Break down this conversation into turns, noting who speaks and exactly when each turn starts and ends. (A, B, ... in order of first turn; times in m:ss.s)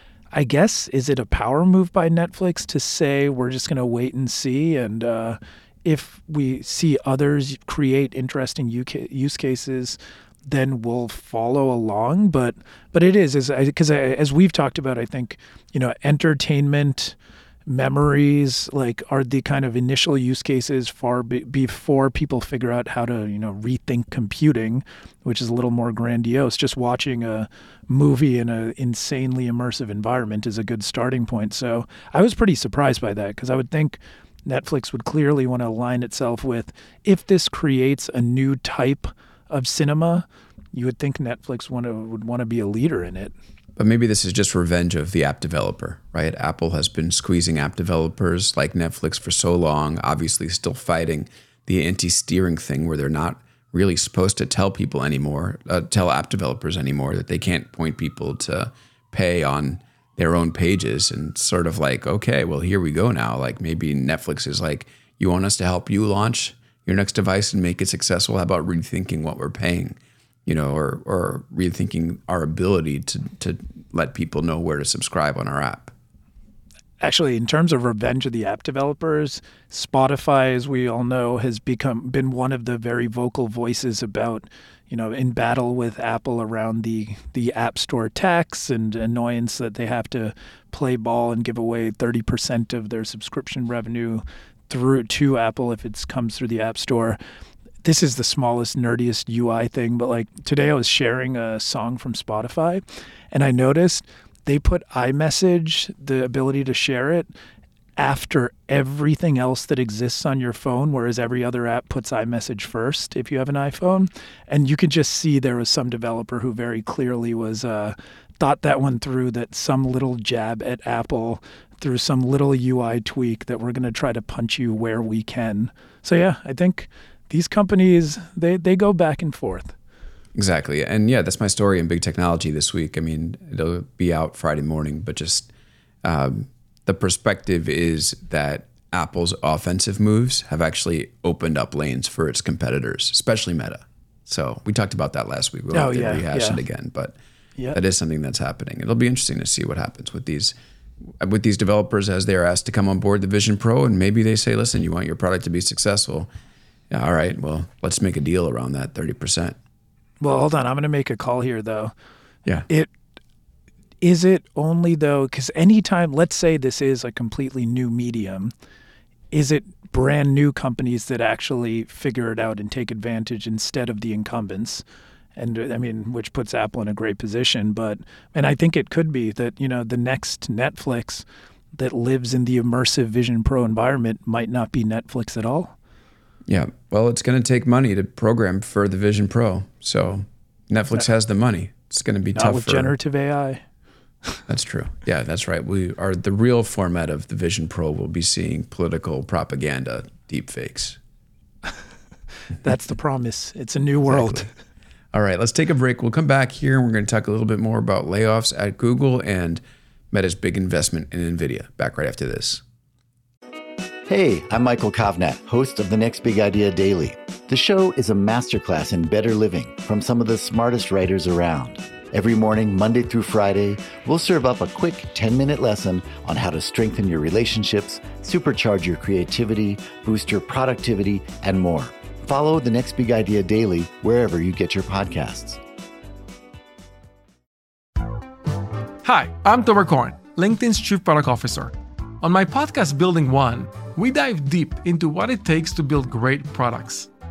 0:00.3-0:43.3 A
0:43.8-1:15.9 B
1:17.0-1:37.2 A
1:37.8-1:47.3 A
1:48.0-2:09.7 A
2:10.4-2:15.5 B
2:16.0-2:27.2 B
2:25.7-2:26.6 A
2:27.7-2:30.6 B
2:31.2-2:36.3 B
2:36.9-2:39.6 B
2:40.2-2:41.9 A
2:44.0-2:48.5 A
2:49.3-2:54.8 A
2:55.4-3:05.7 A
3:06.5-3:12.9 B
3:12.4-3:13.6 A
3:14.5-3:21.0 B
3:22.6-3:24.5 A
3:24.1-3:24.5 B
3:25.1-3:32.6 B
3:34.1-3:55.6 C
3:59.0-4:07.1 D